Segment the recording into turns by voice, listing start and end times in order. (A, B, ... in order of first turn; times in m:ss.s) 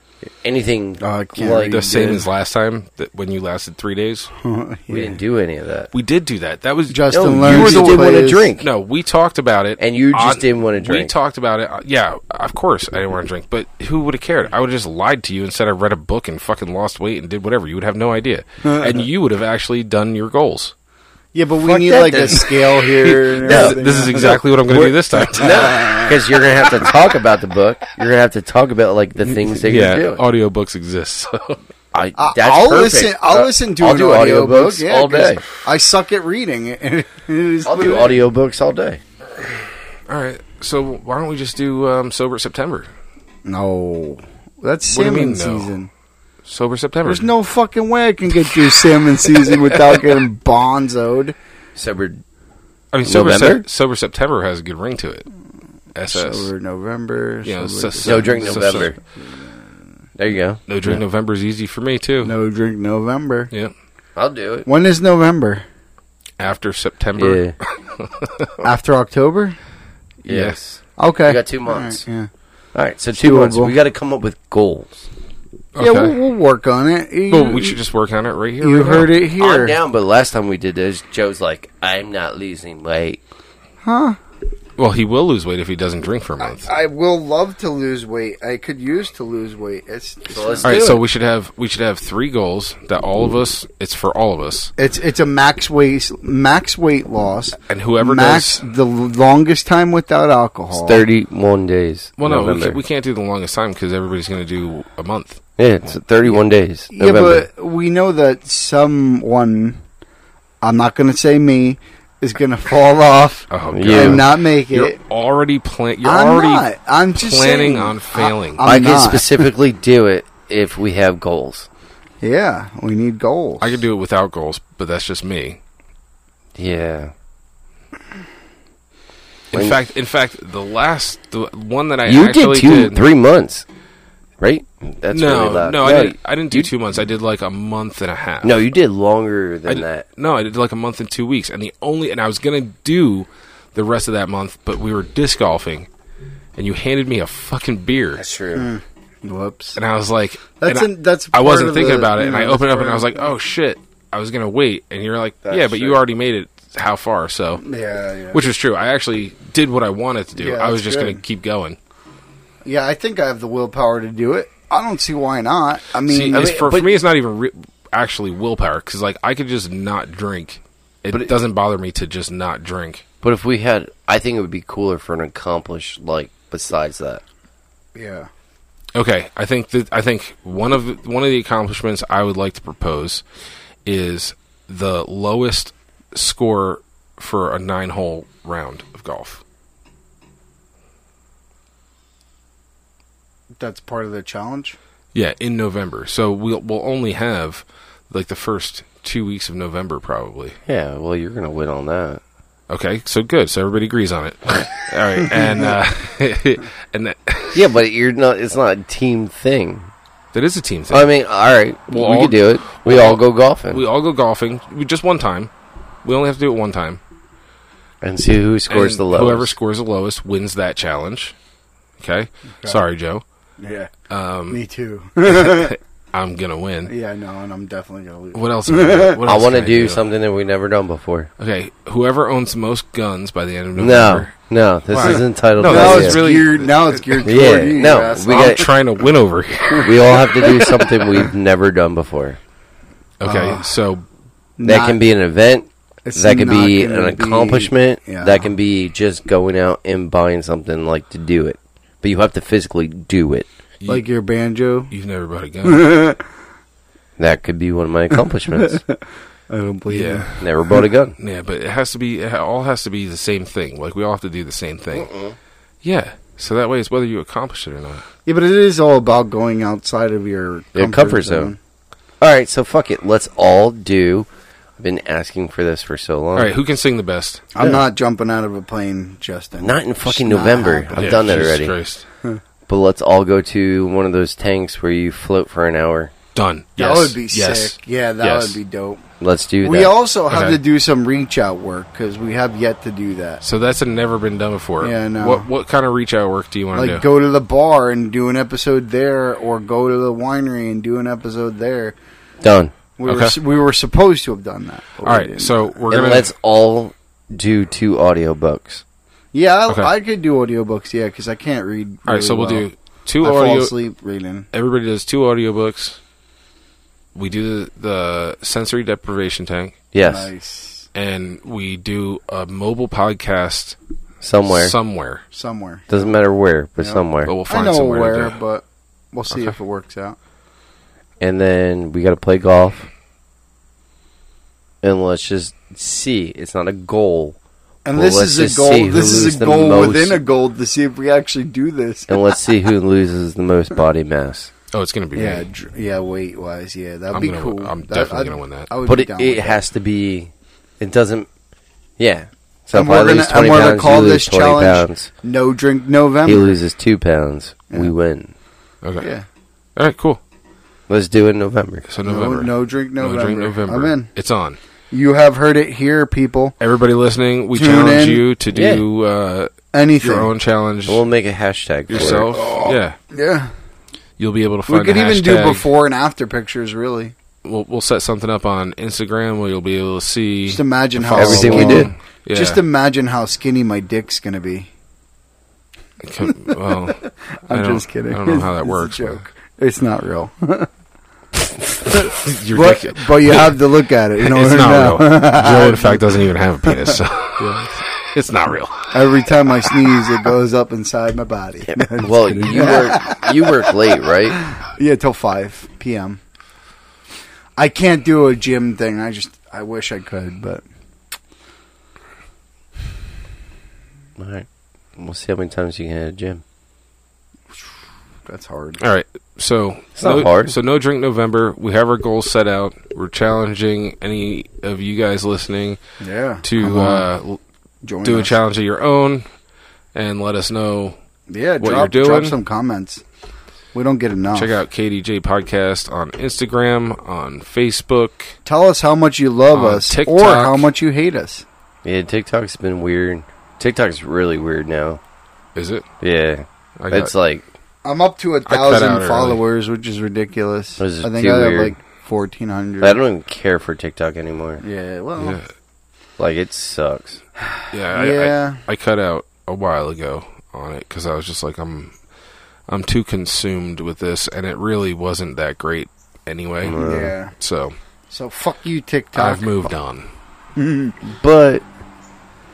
0:00.4-0:01.8 A
0:01.0-0:02.3 B
0:01.7-0:04.3 C
0:04.4-0:05.2 B
0:04.9-0:05.9 A
0:05.9-0:20.7 C
0:06.9-0:08.5 B
0:07.1-0:08.7 A
0:09.8-0:11.1 A
0:18.6-0:19.0 B
0:21.3-0:26.2 B
0:21.6-0:22.5 A
0:22.9-0:26.0 C
0:23.4-0:23.8 A
0:25.4-0:30.2 A
0:29.6-0:31.6 C
0:31.9-0:35.4 A
0:32.2-0:38.2 B
0:37.6-0:39.0 A
0:40.1-0:42.9 C
0:43.4-0:45.9 B
0:44.9-0:45.7 C
0:46.4-0:47.3 C
0:47.0-0:51.4 B
0:48.5-0:50.1 C
0:51.8-0:52.2 A
0:52.9-0:55.3 C
0:53.0-0:53.6 A
0:55.9-0:56.5 C
0:56.1-0:59.6 B
0:57.4-0:59.0 C
0:58.0-0:58.9 A
1:00.2-1:01.0 A
1:00.7-1:02.3 C
1:02.2-1:03.5 B
1:04.2-1:04.7 A
1:04.6-1:05.6 B
1:06.4-1:08.6 C
1:07.2-1:07.5 A
1:08.6-1:09.6 B
1:10.2-1:10.6 C
1:10.2-1:12.0 A
1:11.0-1:12.3 B
1:12.7-1:15.0 A
1:13.1-1:13.8 B
1:15.7-1:16.1 C
1:15.8-1:17.8 B
1:17.3-1:19.1 C
1:18.6-1:19.8 B
1:19.4-1:23.2 A
1:23.8-1:24.2 B
1:24.8-1:26.7 C
1:26.4-1:30.8 B
1:30.3-1:31.0 A
1:30.6-1:34.7 C
1:34.8-1:41.0 B
1:37.7-1:38.6 C
1:40.7-1:42.8 A
1:42.2-1:45.4 C
1:45.6-1:47.4 A
1:46.9-1:49.8 B
1:50.6-1:55.0 B
1:53.5-1:58.7 C
1:53.7-1:54.2 A
1:56.0-1:59.5 B
1:58.6-2:01.7 A
2:02.2-2:03.8 B
2:03.6-2:05.6 C
2:06.6-2:07.1 A
2:09.5-2:09.8 A
2:09.5-2:13.0 C
2:12.1-2:13.6 A
2:14.4-2:16.7 A
2:15.1-2:18.6 C
2:18.4-2:20.0 A
2:19.7-2:25.9 C
2:26.6-2:28.2 C
2:28.2-2:28.7 A
2:28.5-2:29.8 B
2:29.8-2:37.6 C
2:30.6-2:33.3 B
2:35.4-2:36.0 A
2:37.6-2:38.4 B
2:38.3-2:41.8 C
2:40.4-2:41.2 B
2:42.6-2:46.6 B
2:46.0-2:53.0 C
2:46.3-2:46.9 A
2:53.2-2:57.2 A
2:57.9-2:58.3 B
2:58.9-3:03.2 C
3:03.8-3:09.4 C
3:13.6-3:14.8 B
3:15.1-3:20.6 C
3:20.6-3:22.2 A
3:22.7-3:27.7 C
3:25.4-3:25.6 B
3:27.5-3:29.9 A
3:30.3-3:31.1 C
3:30.9-3:33.8 A
3:31.9-3:35.5 C
3:36.0-3:37.0 C
3:38.0-3:39.5 A
3:38.7-3:41.3 C
3:42.0-3:43.2 C
3:43.6-3:43.9 B
3:44.1-3:44.6 C
3:44.5-3:45.8 B
3:45.3-3:46.9 C
3:46.9-3:49.2 B
3:48.3-3:50.0 C
3:49.2-3:51.3 A
3:51.4-3:54.3 C
3:53.8-3:56.2 A
3:54.9-4:00.6 C
3:55.0-3:58.7 B
3:57.2-3:58.6 A
3:59.8-4:02.4 A
4:03.2-4:04.0 C
4:03.2-4:03.7 B
4:04.6-4:05.0 B
4:04.6-4:13.5 A
4:06.0-4:08.5 B
4:13.9-4:14.9 B
4:14.9-4:16.0 C
4:15.6-4:16.2 B
4:17.2-4:18.8 A
4:18.5-4:20.8 B
4:19.9-4:20.4 C
4:20.4-4:21.1 A
4:21.2-4:25.1 C
4:24.9-4:25.4 A
4:25.8-4:28.0 C
4:28.2-4:31.6 B
4:30.7-4:31.5 A
4:32.2-4:34.3 A
4:34.8-4:36.5 A
4:36.4-4:37.4 C
4:37.5-4:41.5 B
4:39.6-4:41.8 A
4:41.0-4:42.0 C
4:42.7-4:46.1 A
4:46.3-4:48.6 C
4:46.8-4:49.0 B
4:49.2-4:49.9 A
4:49.6-4:53.4 B
4:50.3-4:50.6 C
4:53.4-4:57.0 C
4:54.8-4:55.5 B
4:56.7-5:02.0 B
5:02.4-5:02.7 A
5:03.0-5:05.8 B
5:03.0-5:03.4 C
5:05.0-5:06.3 C
5:05.9-5:08.8 A
5:09.3-5:12.6 B
5:12.0-5:13.7 C
5:13.2-5:14.5 B
5:14.5-5:16.0 C
5:17.1-5:19.8 C
5:19.9-5:20.3 A
5:20.0-5:20.9 B
5:20.9-5:23.8 C
5:24.2-5:24.7 A
5:24.4-5:25.2 C
5:25.3-5:26.2 B
5:25.9-5:27.3 A
5:26.8-5:30.2 B
5:27.2-5:28.4 C
5:29.3-5:29.5 C
5:31.2-5:32.9 A
5:34.8-5:37.4 A
5:37.8-5:42.5 B
5:37.9-5:40.2 A
5:42.1-5:44.5 A
5:44.7-5:45.5 C
5:45.1-5:49.6 B
5:47.1-5:48.7 C
5:48.8-5:51.3 A
5:52.0-5:55.1 A
5:52.7-5:56.6 B
5:56.2-5:58.3 A
5:58.8-5:59.1 C
5:59.0-5:59.3 B
5:59.8-6:00.2 C
6:00.9-6:01.8 A
6:01.9-6:04.6 C
6:02.0-6:04.1 B
6:04.9-6:06.6 B
6:06.6-6:11.0 C
6:07.5-6:08.2 B
6:08.5-6:08.8 A
6:09.7-6:10.3 B
6:10.9-6:12.3 A
6:11.9-6:13.0 C
6:11.9-6:13.5 B
6:14.2-6:15.7 C
6:14.7-6:17.1 B
6:17.4-6:22.6 C
6:20.5-6:24.7 B
6:21.1-6:21.9 A
6:26.0-6:29.2 C
6:26.2-6:30.7 B
6:31.8-6:33.6 C
6:31.9-6:36.0 B
6:34.2-6:39.8 C
6:36.6-6:37.7 B
6:38.9-6:43.8 B
6:41.6-6:44.4 A
6:44.3-6:46.2 B
6:47.6-6:50.6 B
6:54.2-6:56.4 A
6:58.2-6:58.8 B
6:58.8-7:05.8 C
7:00.0-7:00.5 A
7:06.0-7:07.1 B
7:06.4-7:07.4 C
7:07.8-7:08.4 B
7:08.0-7:09.3 C
7:09.9-7:11.0 C
7:11.3-7:13.0 B
7:11.6-7:12.4 C
7:13.7-7:14.6 B
7:14.3-7:18.4 C
7:18.4-7:21.4 B
7:19.5-7:20.7 C
7:21.8-7:25.0 A
7:25.5-7:25.9 C
7:26.0-7:27.4 A
7:26.8-7:27.1 C
7:27.8-7:33.0 B
7:28.4-7:29.4 C
7:30.8-7:31.8 A
7:32.8-7:34.6 A
7:34.6-7:35.4 B
7:35.2-7:35.5 C
7:36.2-7:37.2 A
7:37.5-7:38.6 B
7:37.7-7:41.9 C
7:42.7-7:46.8 C
7:46.6-7:47.1 A
7:46.8-7:47.3 B
7:47.4-7:47.8 C
7:48.1-7:49.7 B
7:49.1-7:50.1 C
7:50.6-7:51.0 B
7:51.1-7:51.6 A